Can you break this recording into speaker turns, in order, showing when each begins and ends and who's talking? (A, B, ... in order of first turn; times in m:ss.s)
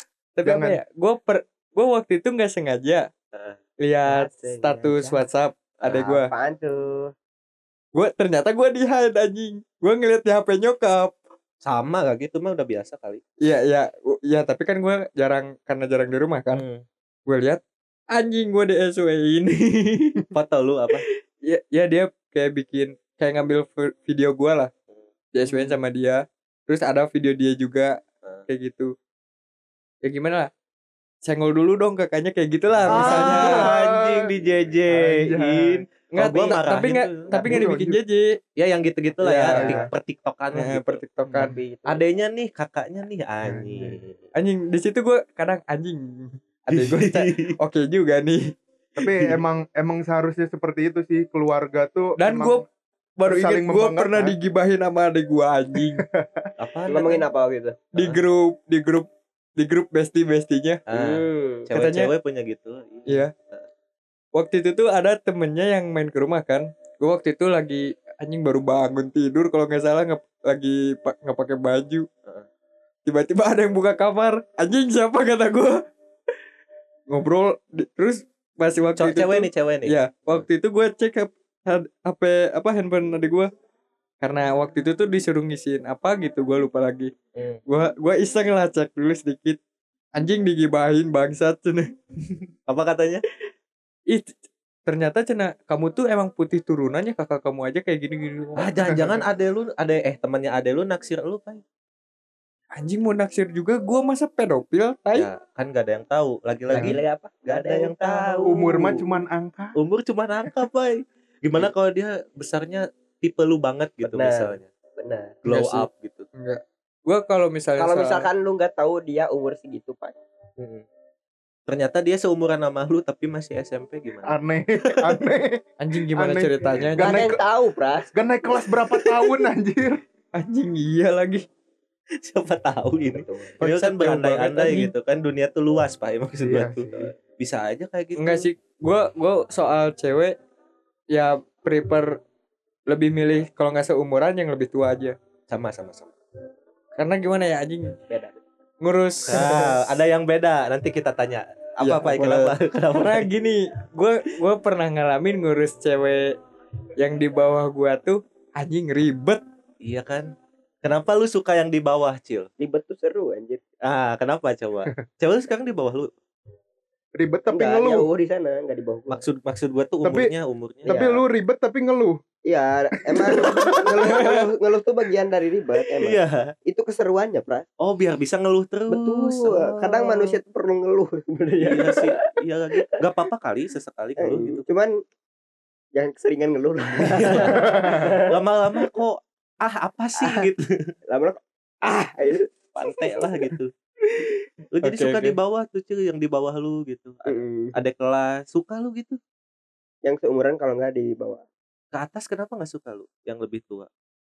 0:00.4-0:03.1 A
0:00.4-0:00.8 B
0:03.3-0:03.6 C
0:03.8-0:06.3 A
0:04.0-0:05.2 D
0:05.8-0:07.1 D
0:07.9-0:11.1 A
0:11.6-0:13.2 C
0:13.4-0:16.6 A
0:16.5-0:16.8 C
0:17.3-0:17.6 A
0:18.1-0:20.2 A
0:20.3-0:21.0 C
0:21.4-0:24.7 A
0:25.3-0:28.9 A
0:25.4-0:25.8 B
0:30.0-0:30.5 A
0:31.2-0:33.7 A
0:32.8-0:34.3 B
0:32.8-0:37.4 C
0:34.9-0:35.8 B
0:36.1-0:38.4 A
0:37.3-0:37.6 D
0:37.4-0:38.0 B
0:38.6-0:41.0 C
0:39.2-0:39.8 A
0:39.5-0:39.8 B
0:39.6-0:39.9 D
0:40.5-0:41.5 A
0:41.4-0:42.0 D
0:41.8-0:44.2 C
0:43.4-0:44.0 B
0:44.3-0:49.4 A
0:46.7-0:47.6 C
0:49.0-0:52.6 B
0:52.2-0:52.6 A
0:53.2-0:56.0 A
0:53.2-0:54.4 B
0:55.8-0:56.5 B
0:56.6-0:57.2 C
0:56.9-0:57.9 D
0:57.9-1:00.8 A
1:00.9-1:03.7 C
1:00.9-1:01.7 D
1:01.7-1:02.1 A
1:04.3-1:12.1 A
1:13.0-1:15.8 A
1:17.1-1:23.5 A
1:19.0-1:20.4 C
1:24.2-1:27.1 A
1:27.7-1:29.6 A
1:30.2-1:31.9 A
1:32.7-1:33.2 C
1:34.8-1:39.1 A
1:38.6-1:41.6 C
1:42.8-1:45.3 A
1:45.1-1:49.0 C
1:46.7-1:48.9 D
1:48.5-1:49.8 B
1:49.8-1:54.7 C
1:54.0-1:55.4 D
1:55.4-1:56.3 C
1:55.5-1:58.3 A
1:57.8-2:00.1 D
2:00.6-2:00.8 C
2:01.7-2:05.2 C
2:04.2-2:07.4 B
2:05.8-2:07.2 A
2:07.0-2:08.1 D
2:08.1-2:10.0 B
2:10.4-2:11.4 A
2:12.2-2:18.5 C
2:13.1-2:13.5 D
2:13.6-2:14.9 A
2:16.4-2:17.1 B
2:18.2-2:20.3 A
2:21.1-2:22.2 A
2:22.9-2:25.2 A
2:25.5-2:26.1 C
2:27.0-2:27.9 A
2:28.1-2:28.4 D
2:28.8-2:30.0 A
2:29.3-2:33.3 C
2:31.8-2:36.4 A
2:37.0-2:39.4 A
2:39.8-2:40.3 C
2:40.8-2:42.5 C
2:42.6-2:43.6 D
2:43.8-2:46.1 C
2:47.2-2:48.1 B
2:47.5-2:49.2 D
2:49.1-2:51.0 C
2:50.0-2:50.3 B
2:50.8-2:52.2 B
2:50.9-2:51.2 D
2:52.4-2:57.6 D
2:53.1-2:54.5 B
2:53.3-2:54.1 C
2:56.0-2:56.5 C
2:57.8-3:00.4 C
2:58.9-3:02.2 D
3:01.6-3:04.6 C
3:04.2-3:05.0 D
3:05.9-3:09.0 D
3:06.9-3:10.9 C
3:10.2-3:10.5 D
3:11.1-3:13.5 D
3:12.8-3:13.7 C
3:14.7-3:19.2 C
3:14.8-3:15.4 A
3:17.2-3:17.7 D
3:20.0-3:21.4 D
3:21.9-3:23.9 C